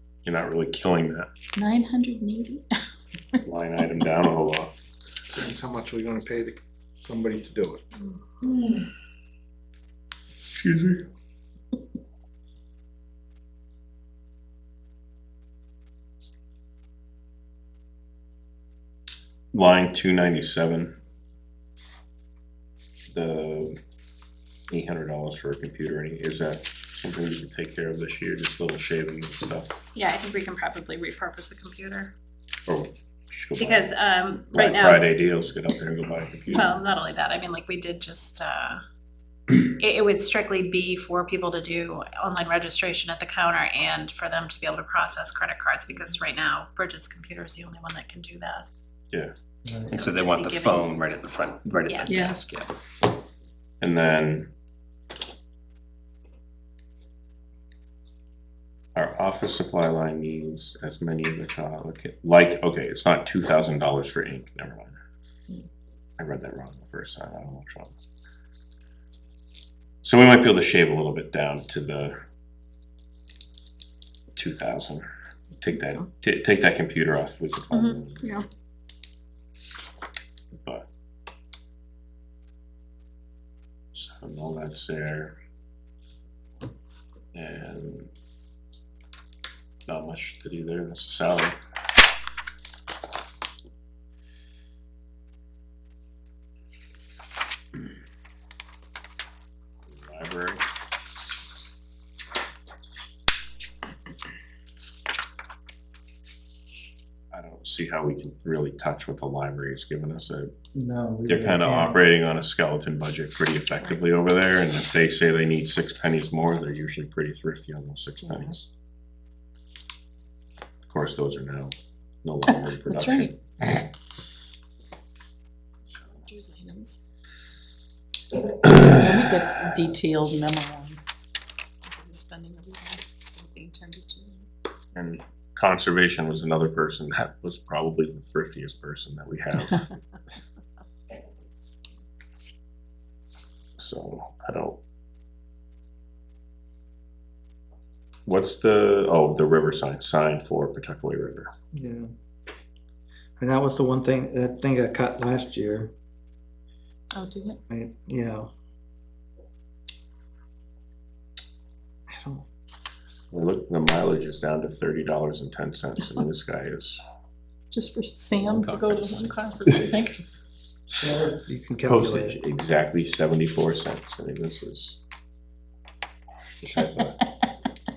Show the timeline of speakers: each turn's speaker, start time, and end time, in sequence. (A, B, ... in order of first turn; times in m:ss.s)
0:00.2-0:01.3 A
0:01.6-0:02.6 B
0:03.4-0:04.8 A
0:05.3-0:07.8 C
0:10.5-0:11.1 A
0:19.5-0:20.9 A
0:23.1-0:23.8 A
0:24.7-0:29.8 A
0:29.9-0:32.1 D
0:32.7-0:33.9 A
0:33.6-0:35.0 D
0:34.5-0:36.7 A
0:36.5-0:38.8 D
0:39.7-0:48.6 D
0:49.9-0:52.7 E
0:49.9-0:51.0 D
0:51.9-0:52.2 D
0:52.0-0:52.4 B
0:53.8-0:54.5 A
0:59.0-1:05.0 A
1:06.2-1:07.9 A
1:10.0-1:12.2 A
1:14.3-1:15.0 A
1:15.6-1:18.3 A
1:17.7-1:18.4 D
1:20.6-1:20.9 A
1:23.9-1:25.3 A
1:27.3-1:28.1 A
1:29.9-1:31.6 A
1:39.9-1:40.6 A
1:47.3-1:50.5 A
1:50.8-1:52.0 F
1:51.3-1:58.7 A
2:00.9-2:03.7 A
2:02.5-2:03.4 B
2:06.2-2:07.0 B
2:08.9-2:11.0 B
2:11.8-2:14.5 B
2:14.9-2:19.9 A
2:23.8-2:24.8 A
2:28.2-2:31.5 A
2:31.7-2:32.1 F
2:33.4-2:35.9 F
2:37.1-2:37.6 B
2:37.7-2:38.5 F
2:42.1-2:42.4 F
2:43.3-2:47.0 A
2:47.7-2:50.2 B
2:48.5-2:49.3 E
2:51.0-2:52.4 F
2:51.8-2:55.0 A
2:56.6-2:57.2 A
2:57.0-2:57.3 B